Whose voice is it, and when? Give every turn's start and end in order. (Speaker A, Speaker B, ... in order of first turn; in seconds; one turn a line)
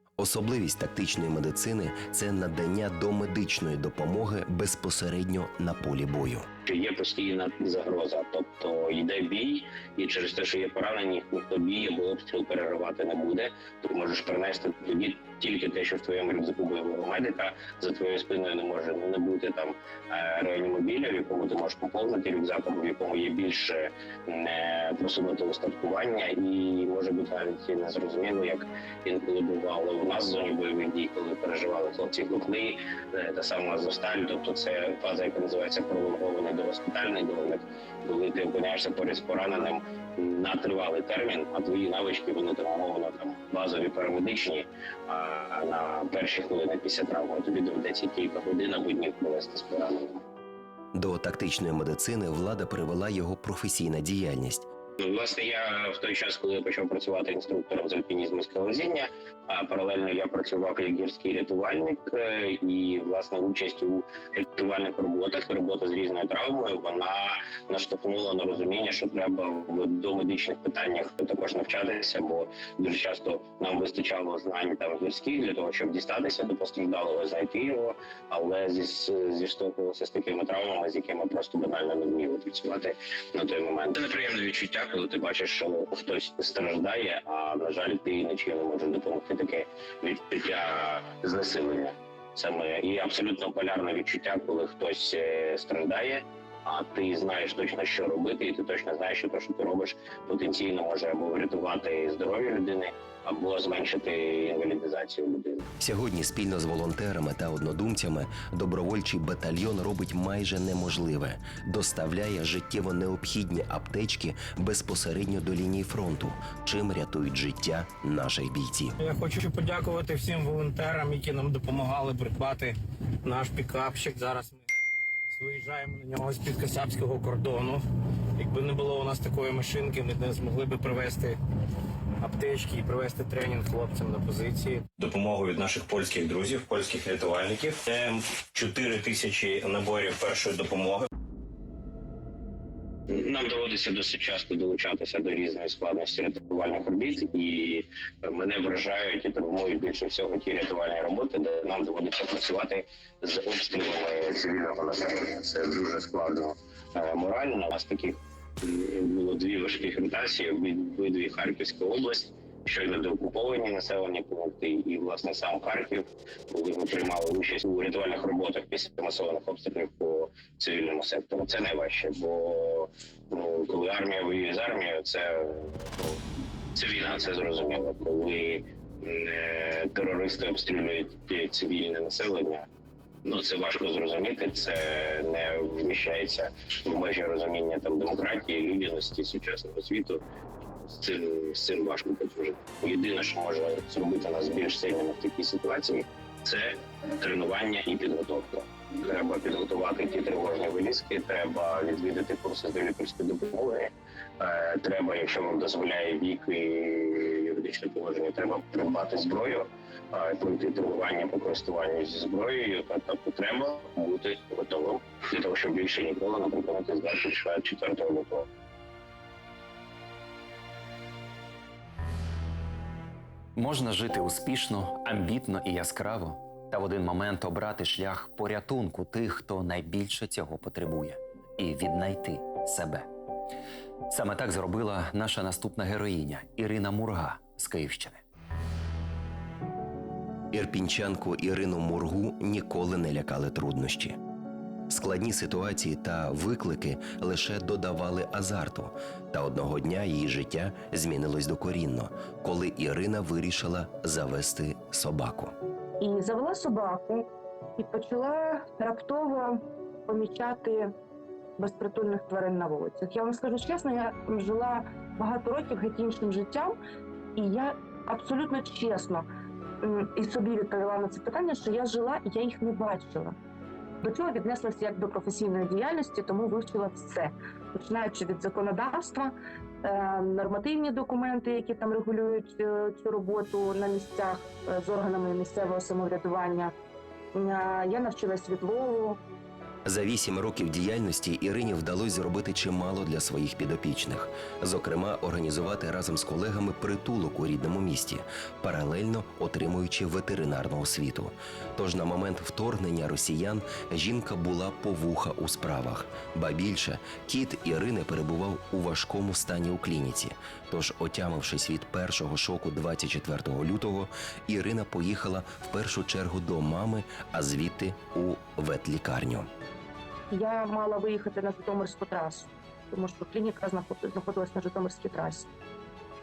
Speaker A: 0.2-6.5
Speaker B: 6.6-50.2
Speaker A: 50.9-54.7
Speaker B: 55.0-105.7
Speaker A: 105.8-119.0
Speaker C: 119.0-124.6
Speaker C: 125.3-127.8
Speaker C: 128.4-131.4
Speaker C: 132.2-134.9
Speaker D: 135.0-141.1
Speaker B: 143.1-176.2
Speaker B: 176.7-182.7
Speaker B: 183.2-190.2
Speaker B: 190.8-218.5
Speaker E: 223.6-233.1
Speaker E: 234.1-238.2
Speaker A: 240.5-244.2
Speaker A: 244.9-255.5
Speaker F: 256.0-260.9
Speaker F: 261.6-266.8
Speaker F: 267.4-269.3
Speaker F: 269.8-273.3
Speaker F: 274.0-286.7
Speaker F: 287.3-289.2
Speaker A: 289.8-319.5
Speaker F: 320.3-325.5